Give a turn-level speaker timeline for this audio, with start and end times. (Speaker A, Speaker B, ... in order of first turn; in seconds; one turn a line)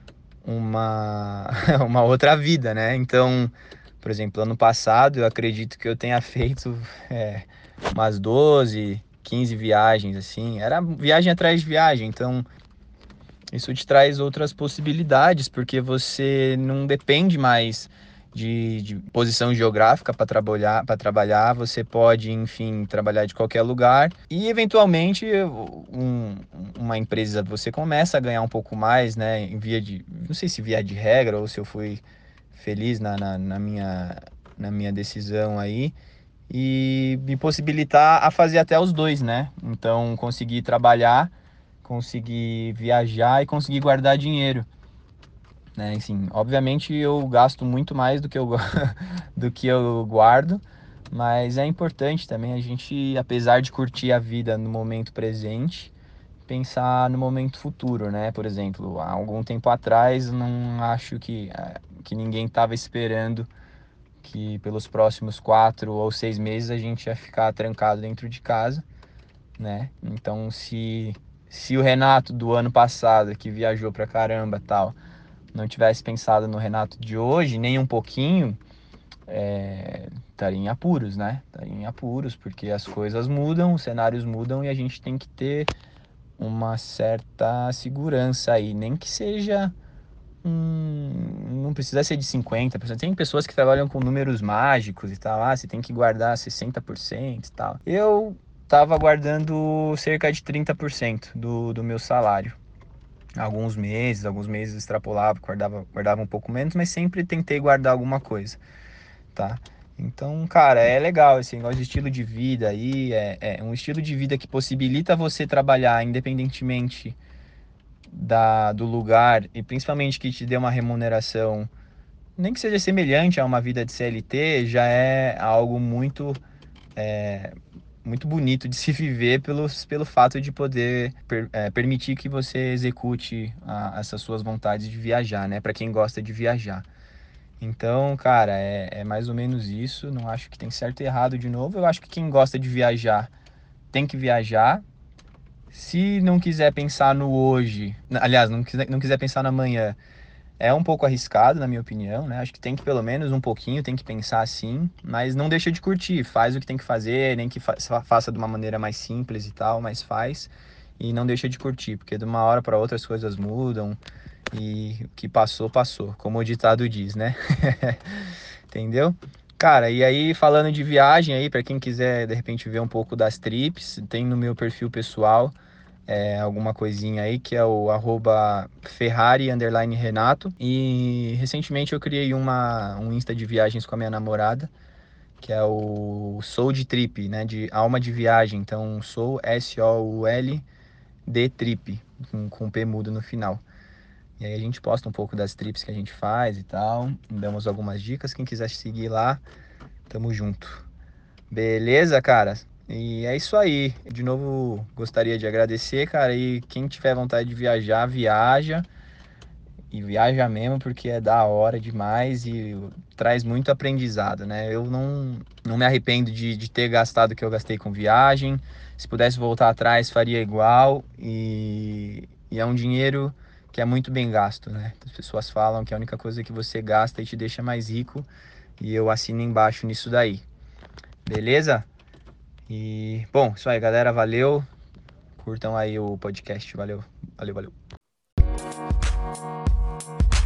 Speaker A: 0.4-12.4
Speaker A: 13.5-32.0
Speaker A: 32.5-35.9
Speaker A: 36.5-41.3
Speaker A: 41.8-44.7
Speaker A: 45.8-55.9
Speaker A: 56.5-63.5
Speaker A: 64.2-68.8
Speaker A: 69.6-75.0
Speaker A: 75.5-78.6
Speaker A: 79.3-85.7
Speaker A: 86.4-89.7
Speaker A: 90.4-102.6
Speaker A: 103.4-108.6
Speaker A: 109.3-117.2
Speaker A: 118.1-121.7
Speaker A: 122.4-126.4
Speaker A: 127.0-136.9
Speaker A: 137.6-143.3
Speaker A: 143.9-144.8
Speaker A: 145.7-150.0
Speaker A: 150.6-164.0
Speaker A: 164.5-168.0
Speaker A: 168.7-175.6
Speaker A: 176.1-184.7
Speaker A: 185.4-190.7
Speaker A: 191.2-193.6
Speaker A: 194.4-199.4
Speaker A: 200.1-200.8
Speaker A: 201.5-208.9
Speaker A: 209.9-228.3
Speaker A: 228.8-230.4
Speaker A: 231.2-231.8
Speaker A: 232.7-234.7
Speaker A: 235.4-237.7